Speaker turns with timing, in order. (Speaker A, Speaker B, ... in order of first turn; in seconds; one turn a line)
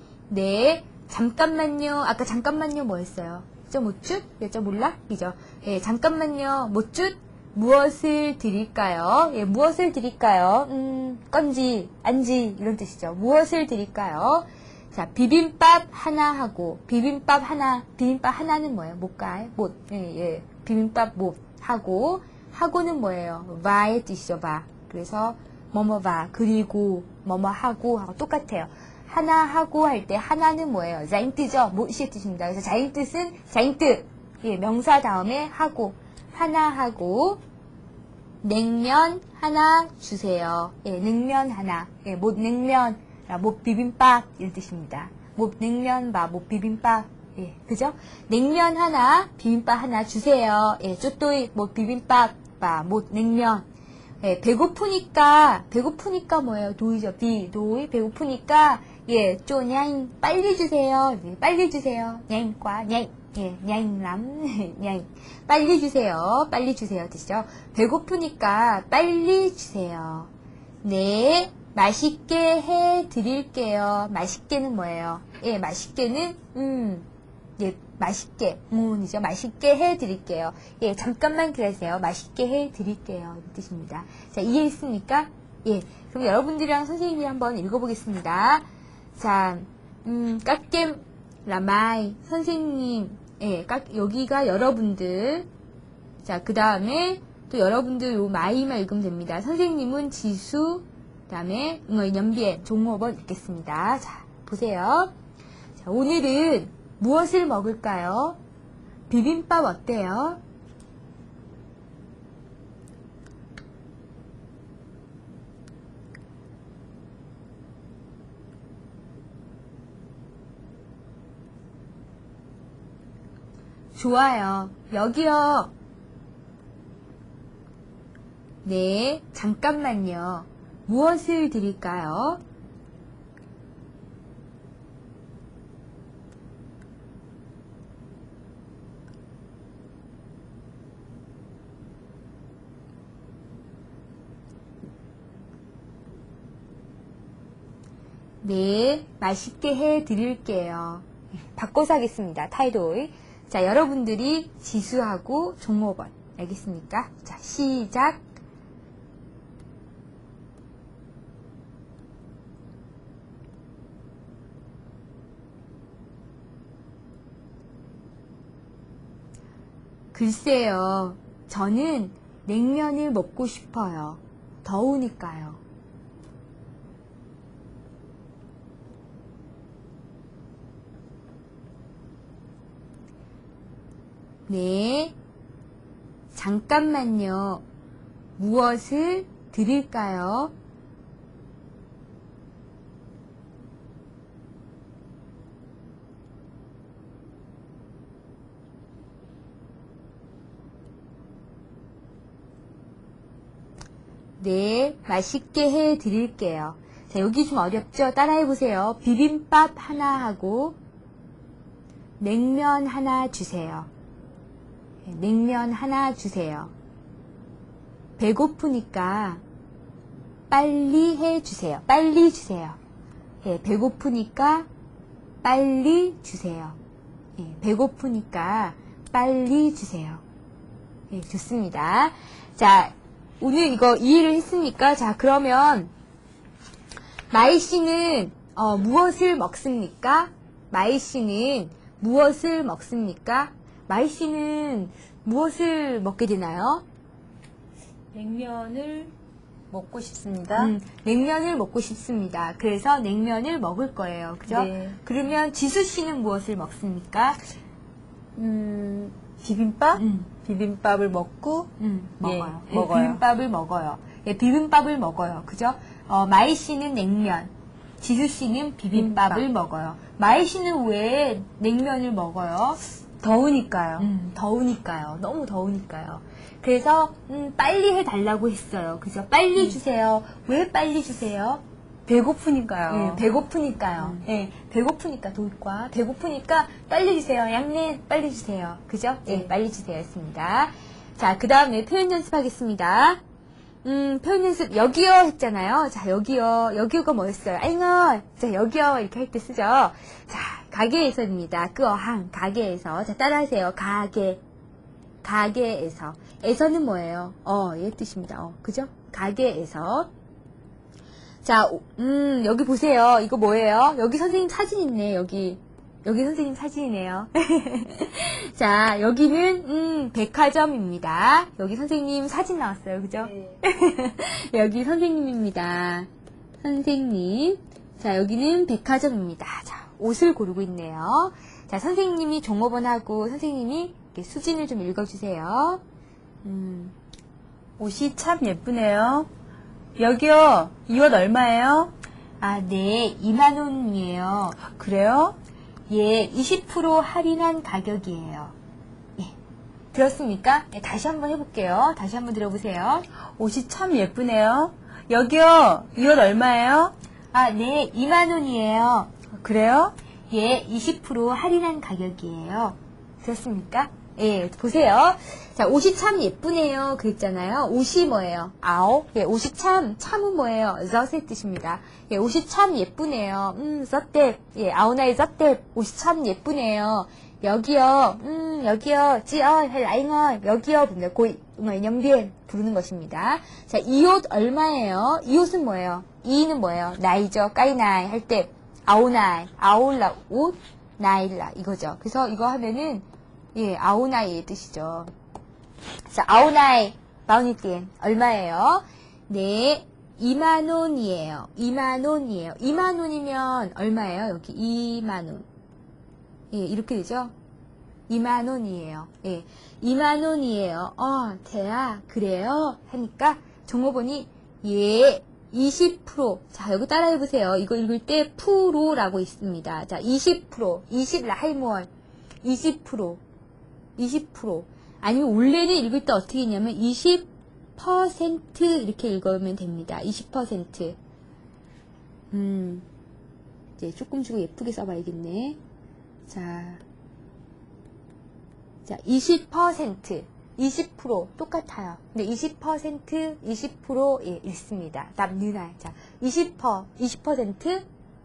Speaker A: 0.3-37.4
Speaker A: 38.4-53.6
Speaker A: 54.2-70.3
Speaker A: 70.8-77.0
Speaker A: 77.6-88.6
Speaker A: 89.2-95.5
Speaker A: 96.2-105.1
Speaker A: 105.8-108.4
Speaker A: 109.1-110.4
Speaker A: 123.9-125.7
Speaker A: 128.6-132.4
Speaker A: 148.4-158.2
Speaker A: 170.1-175.6
Speaker A: 184.5-185.1
Speaker A: 186.3-187.6
Speaker A: 188.4-190.5
Speaker A: 204.4-210.8
Speaker A: 212.2-213.9
Speaker A: 215.1-216.7
Speaker A: 218.2-219.4
Speaker A: 220.5-222.8
Speaker A: 223.4-224.7
Speaker A: 225.4-226.8
Speaker A: 227.4-230.2
Speaker A: 231.1-235.9
Speaker A: 237.3-246.8
Speaker B: 248.1-249.1
Speaker B: 249.7-250.7
Speaker A: 250.6-257.4
Speaker B: 254.5-255.0
Speaker B: 258.4-263.2
Speaker A: 259.9-260.3
Speaker A: 261.8-272.8
Speaker B: 268.9-269.4
Speaker B: 273.2-274.1
Speaker A: 274.0-281.6
Speaker B: 282.1-283.2
Speaker A: 282.9-293.2
Speaker A: 293.8-304.4
Speaker A: 305.2-310.1
Speaker A: 311.4-326.1
Speaker A: 326.6-335.8
Speaker A: 336.4-336.9
Speaker B: 337.8-339.3
Speaker B: 340.0-341.9
Speaker A: 342.4-344.6
Speaker B: 344.6-345.4
Speaker A: 345.9-348.5
Speaker A: 349.9-353.1
Speaker B: 353.4-356.9
Speaker A: 357.3-359.1
Speaker B: 359.3-359.9
Speaker A: 360.3-395.1
Speaker A: 396.1-405.4
Speaker A: 406.5-407.3
Speaker A: 408.1-421.9
Speaker A: 422.4-423.2
Speaker A: 424.0-431.0
Speaker A: 432.3-432.8
Speaker A: 433.8-435.6
Speaker A: 436.3-436.8
Speaker A: 438.9-447.8